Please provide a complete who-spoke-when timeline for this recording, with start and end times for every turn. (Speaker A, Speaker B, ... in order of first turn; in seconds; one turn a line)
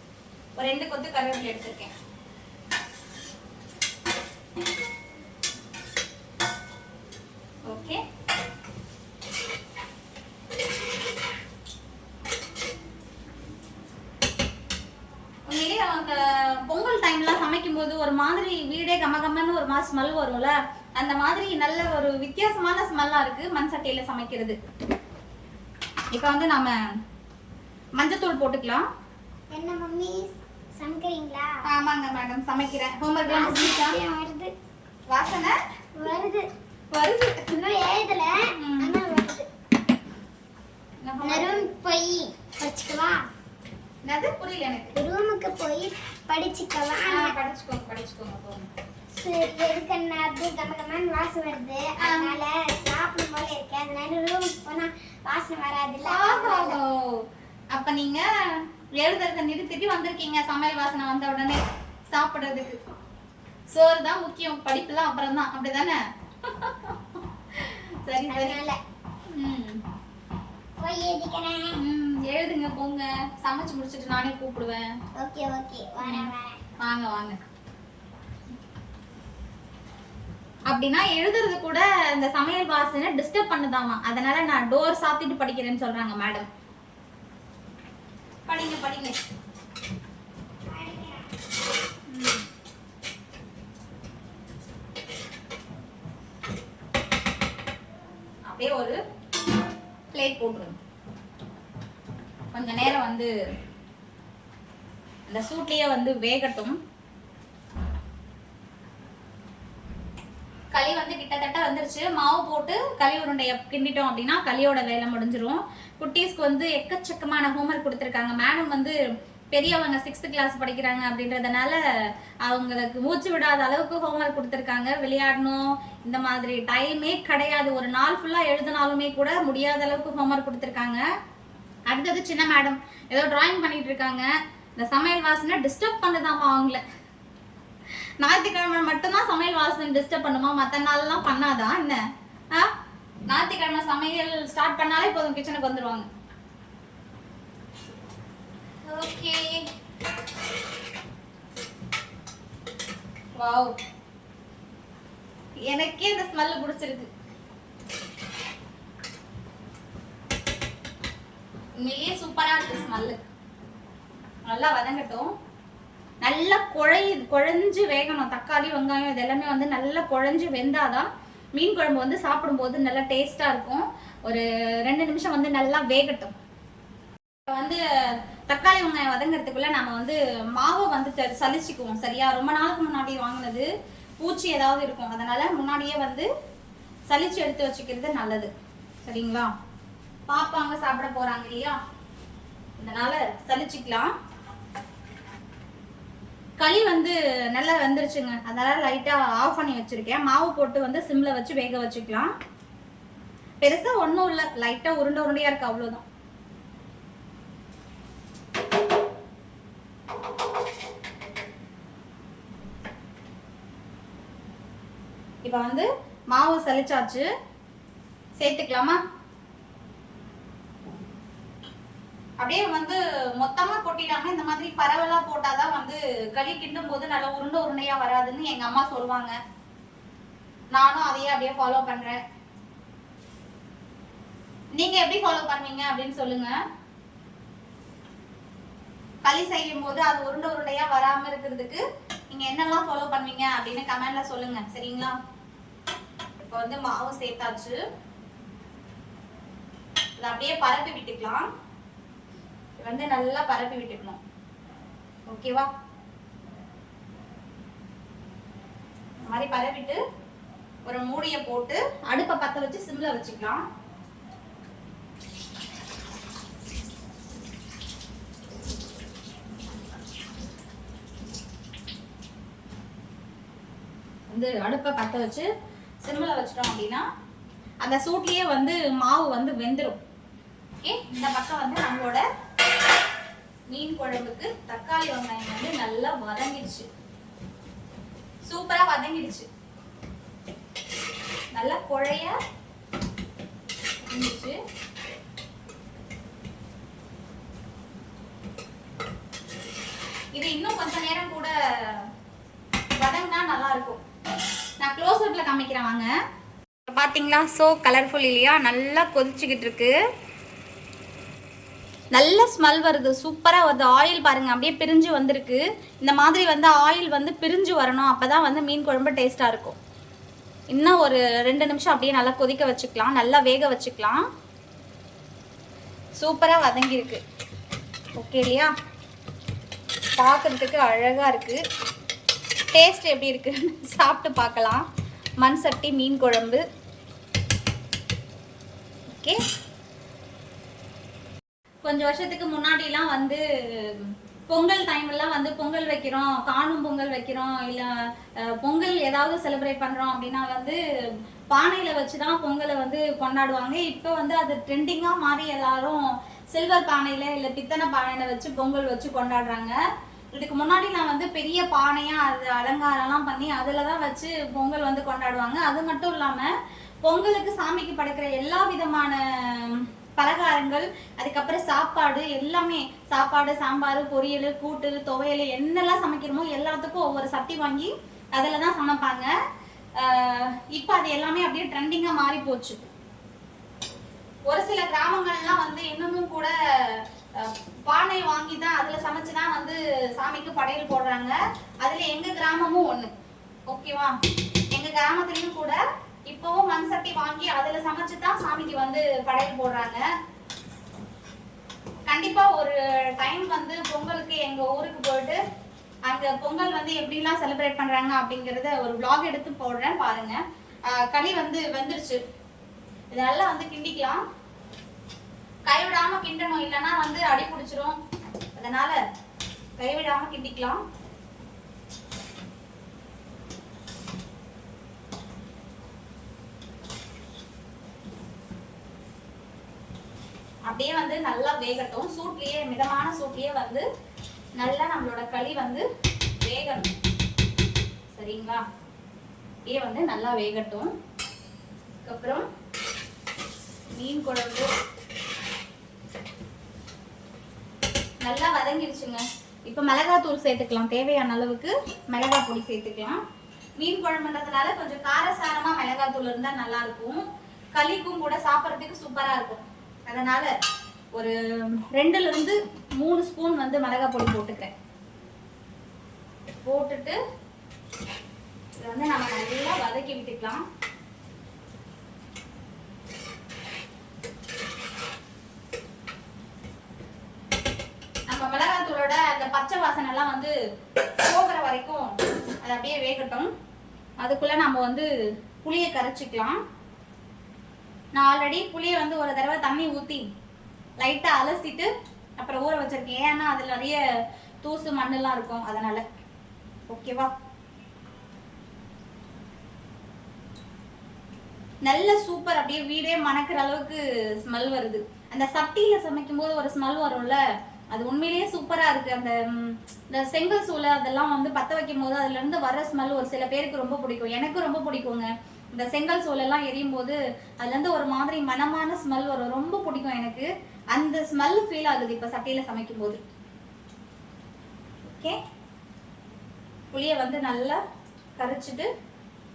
Speaker A: 0.6-1.9
Speaker A: 7.6-8.0
Speaker A: 15.5-24.6
Speaker A: 26.1-26.7
Speaker A: 27.9-28.9
Speaker B: 29.5-31.6
Speaker A: 31.6-34.0
Speaker B: 33.2-34.5
Speaker A: 35.1-35.6
Speaker B: 36.0-36.5
Speaker A: 36.9-37.6
Speaker B: 37.4-39.5
Speaker A: 38.5-39.0
Speaker A: 41.0-41.7
Speaker B: 41.2-43.2
Speaker A: 44.0-44.9
Speaker B: 44.9-47.3
Speaker A: 47.0-48.7
Speaker B: 49.1-56.8
Speaker A: 52.0-52.4
Speaker A: 56.0-62.8
Speaker A: 63.7-68.6
Speaker B: 68.2-68.8
Speaker A: 69.3-69.8
Speaker B: 70.8-71.8
Speaker A: 71.8-74.9
Speaker B: 75.2-76.6
Speaker A: 76.0-77.4
Speaker A: 80.7-86.5
Speaker A: 88.5-89.1
Speaker B: 90.7-91.3
Speaker A: 92.1-92.4
Speaker A: 98.5-99.0
Speaker A: 100.1-100.8
Speaker A: 102.5-103.3
Speaker A: 105.3-106.8
Speaker A: 110.7-118.9
Speaker A: 119.5-121.8
Speaker A: 122.4-131.1
Speaker A: 131.9-136.8
Speaker A: 138.2-142.0
Speaker A: 143.3-146.1
Speaker A: 148.8-149.7
Speaker A: 153.4-153.7
Speaker A: 155.7-157.1
Speaker A: 161.8-163.2
Speaker A: 164.4-165.3
Speaker A: 166.2-176.3
Speaker A: 177.5-177.8
Speaker A: 178.5-183.7
Speaker A: 184.2-186.3
Speaker A: 187.1-188.5
Speaker A: 189.0-189.5
Speaker A: 190.3-191.8
Speaker A: 192.8-194.1
Speaker A: 196.6-202.3
Speaker A: 203.6-206.0
Speaker A: 215.4-217.3
Speaker A: 218.4-219.0
Speaker A: 222.4-229.3
Speaker A: 230.7-232.2
Speaker A: 234.8-236.6
Speaker A: 239.2-245.2
Speaker A: 246.4-247.8
Speaker A: 250.2-251.5
Speaker A: 252.8-254.2
Speaker A: 255.3-255.7
Speaker A: 259.3-260.0
Speaker A: 260.9-263.6
Speaker A: 274.3-275.5
Speaker A: 276.0-277.1
Speaker A: 277.8-280.0
Speaker A: 280.8-282.2
Speaker A: 283.7-286.9
Speaker A: 288.4-289.5
Speaker A: 291.5-292.3
Speaker A: 294.1-294.6
Speaker A: 300.3-302.1
Speaker A: 303.0-304.0
Speaker A: 304.8-306.1
Speaker A: 306.9-309.9
Speaker A: 312.1-319.8
Speaker A: 320.7-324.2
Speaker A: 326.1-327.2
Speaker A: 328.2-328.7
Speaker A: 330.2-331.6
Speaker A: 332.7-334.9
Speaker A: 335.4-336.6
Speaker A: 339.1-339.4
Speaker A: 341.8-350.8
Speaker A: 351.5-359.8
Speaker A: 360.3-366.5
Speaker A: 367.0-379.3
Speaker A: 380.0-382.8
Speaker A: 384.4-393.1
Speaker A: 393.7-394.1
Speaker A: 394.7-400.1
Speaker A: 402.1-405.4
Speaker A: 406.1-412.2
Speaker A: 413.1-414.2
Speaker A: 415.6-418.0
Speaker A: 418.5-419.0
Speaker A: 419.8-420.8
Speaker A: 430.7-433.9
Speaker A: 434.6-435.9
Speaker A: 436.4-436.9
Speaker A: 438.1-438.6
Speaker A: 439.6-440.9
Speaker A: 442.0-442.4
Speaker A: 443.9-444.7
Speaker A: 448.2-453.2
Speaker A: 453.8-460.5
Speaker A: 461.1-464.7
Speaker A: 466.6-467.2
Speaker A: 468.8-470.6
Speaker A: 478.3-480.5
Speaker A: 481.2-483.5
Speaker A: 484.2-485.1
Speaker A: 485.6-486.6
Speaker A: 488.1-490.2
Speaker A: 491.0-494.0
Speaker A: 494.6-496.0
Speaker A: 496.9-497.3
Speaker A: 501.8-507.4
Speaker A: 507.9-523.2
Speaker A: 525.1-525.4
Speaker A: 526.9-527.8
Speaker A: 528.4-528.9